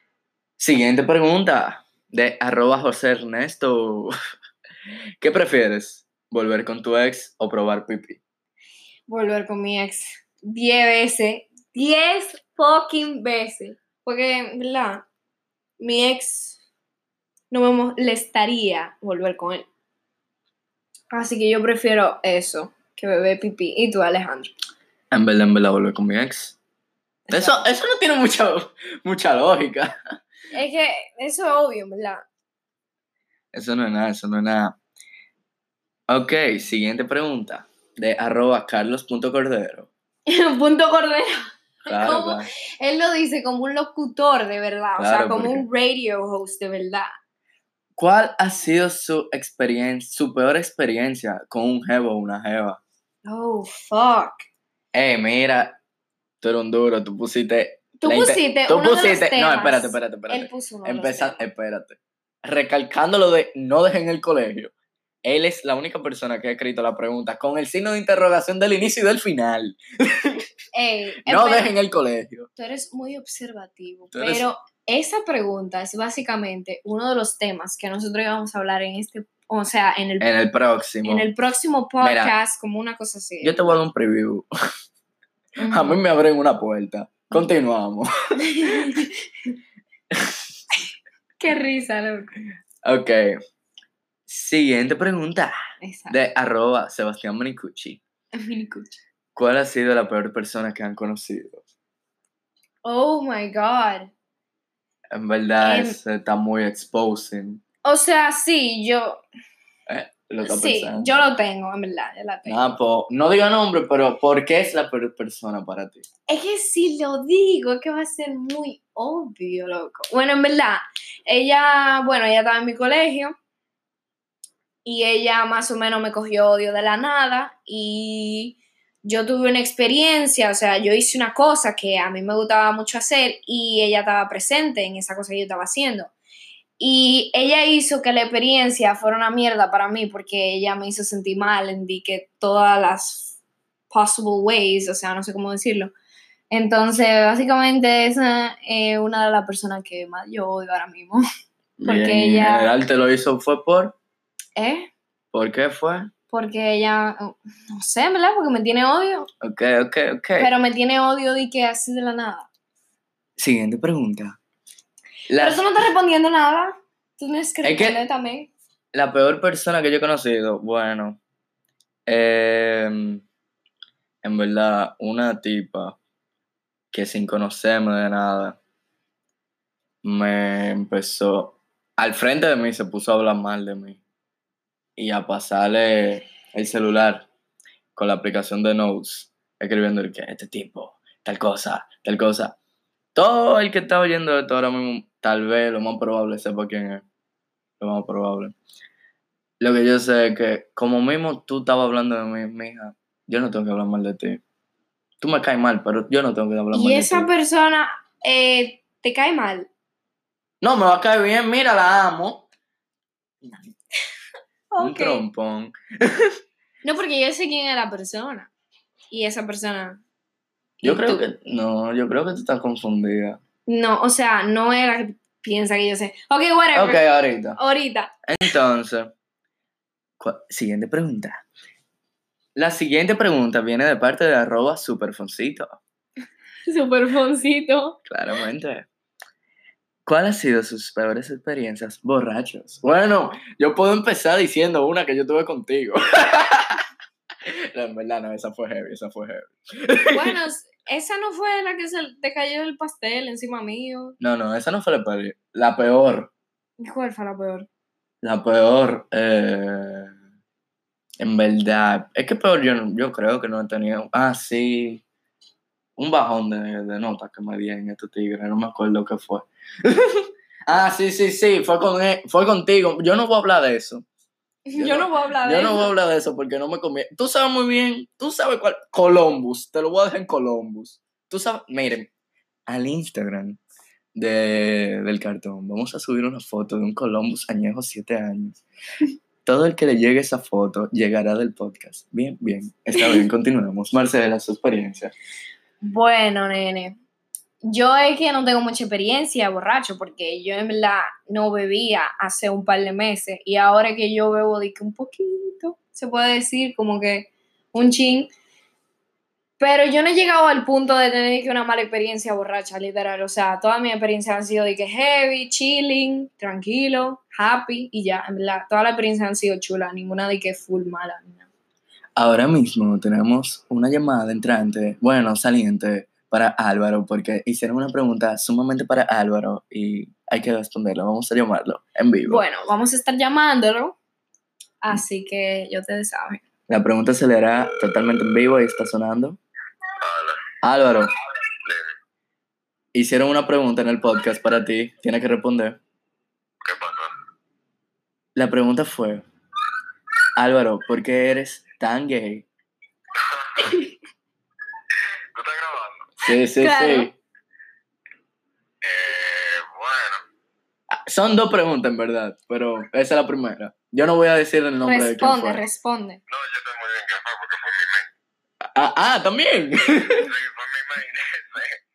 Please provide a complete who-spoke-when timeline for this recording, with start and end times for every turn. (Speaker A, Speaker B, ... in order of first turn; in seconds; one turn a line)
Speaker A: 0.6-4.1
Speaker A: 5.2-8.2
Speaker B: 9.1-15.1
Speaker B: 15.8-16.6
Speaker B: 17.5-19.6
Speaker B: 21.1-24.5
Speaker A: 25.1-26.6
Speaker B: 27.3-27.7
Speaker A: 27.3-30.0
Speaker B: 30.5-32.2
Speaker A: 33.5-34.8
Speaker A: 36.1-39.9
Speaker B: 40.3-47.1
Speaker A: 41.9-42.5
Speaker A: 45.0-45.6
Speaker A: 48.0-52.8
Speaker B: 53.2-54.5
Speaker A: 54.9-55.8
Speaker A: 56.4-64.7
Speaker B: 58.0-61.4
Speaker A: 65.2-70.5
Speaker B: 70.7-71.7
Speaker A: 71.2-72.5
Speaker B: 72.5-80.3
Speaker A: 74.1-74.4
Speaker A: 80.2-81.3
Speaker B: 81.0-83.8
Speaker A: 82.0-82.3
Speaker A: 83.4-84.5
Speaker B: 85.6-86.0
Speaker A: 85.6-89.0
Speaker B: 88.4-89.2
Speaker A: 90.1-90.5
Speaker B: 91.4-92.3
Speaker A: 92.8-93.4
Speaker A: 94.3-95.5
Speaker B: 95.8-96.2
Speaker A: 96.1-98.0
Speaker B: 98.3-99.0
Speaker A: 99.3-101.6
Speaker B: 102.8-104.1
Speaker A: 105.1-107.6
Speaker B: 105.6-106.0
Speaker B: 107.8-109.2
Speaker A: 109.9-111.1
Speaker B: 110.4-112.7
Speaker A: 112.5-116.0
Speaker B: 116.3-123.3
Speaker B: 124.8-136.1
Speaker B: 136.8-143.3
Speaker B: 143.9-145.9
Speaker B: 146.5-151.2
Speaker A: 151.8-153.9
Speaker B: 151.8-152.7
Speaker B: 154.6-154.9
Speaker A: 155.3-156.1
Speaker B: 156.3-159.3
Speaker A: 159.4-160.5
Speaker B: 160.4-162.5
Speaker A: 163.4-164.4
Speaker A: 165.3-165.6
Speaker B: 165.4-168.5
Speaker A: 167.6-168.0
Speaker A: 168.9-171.2
Speaker A: 172.1-173.2
Speaker A: 174.2-176.0
Speaker A: 176.9-178.6
Speaker A: 180.0-184.0
Speaker A: 185.0-187.3
Speaker A: 187.9-192.6
Speaker A: 193.1-197.0
Speaker A: 197.8-198.5
Speaker A: 199.6-204.4
Speaker A: 205.2-207.3
Speaker B: 206.7-209.7
Speaker A: 210.6-212.5
Speaker B: 214.7-215.2
Speaker A: 214.8-216.3
Speaker B: 216.8-218.5
Speaker B: 219.1-220.0
Speaker B: 220.8-221.2
Speaker A: 220.8-223.4
Speaker B: 223.7-228.2
Speaker A: 226.7-227.6
Speaker A: 228.2-229.1
Speaker A: 230.2-231.4
Speaker A: 232.6-235.8
Speaker B: 236.7-238.0
Speaker A: 238.1-238.9
Speaker A: 240.1-246.8
Speaker A: 247.4-250.4
Speaker B: 250.1-254.2
Speaker A: 254.2-256.3
Speaker B: 256.8-257.7
Speaker A: 258.2-260.1
Speaker A: 261.2-265.0
Speaker A: 266.0-274.0
Speaker B: 274.7-275.9
Speaker A: 274.8-282.1
Speaker A: 282.7-283.6
Speaker A: 284.1-288.6
Speaker A: 289.4-295.1
Speaker B: 293.0-293.2
Speaker B: 295.8-297.0
Speaker B: 297.6-308.3
Speaker B: 309.6-321.4
Speaker A: 322.1-332.4
Speaker B: 332.2-334.0
Speaker B: 334.8-336.4
Speaker A: 336.7-339.4
Speaker C: 340.0-340.5
Speaker A: 340.6-341.1
Speaker A: 342.9-345.8
Speaker C: 346.6-347.1
Speaker A: 348.4-349.2
Speaker A: 350.4-352.5
Speaker C: 353.1-353.8
Speaker C: 355.3-356.1
Speaker A: 356.2-357.1
Speaker B: 356.6-357.1
Speaker C: 358.8-360.2
Speaker A: 360.9-365.6
Speaker B: 364.8-366.2
Speaker C: 366.3-368.1
Speaker A: 368.7-370.3
Speaker C: 370.1-371.8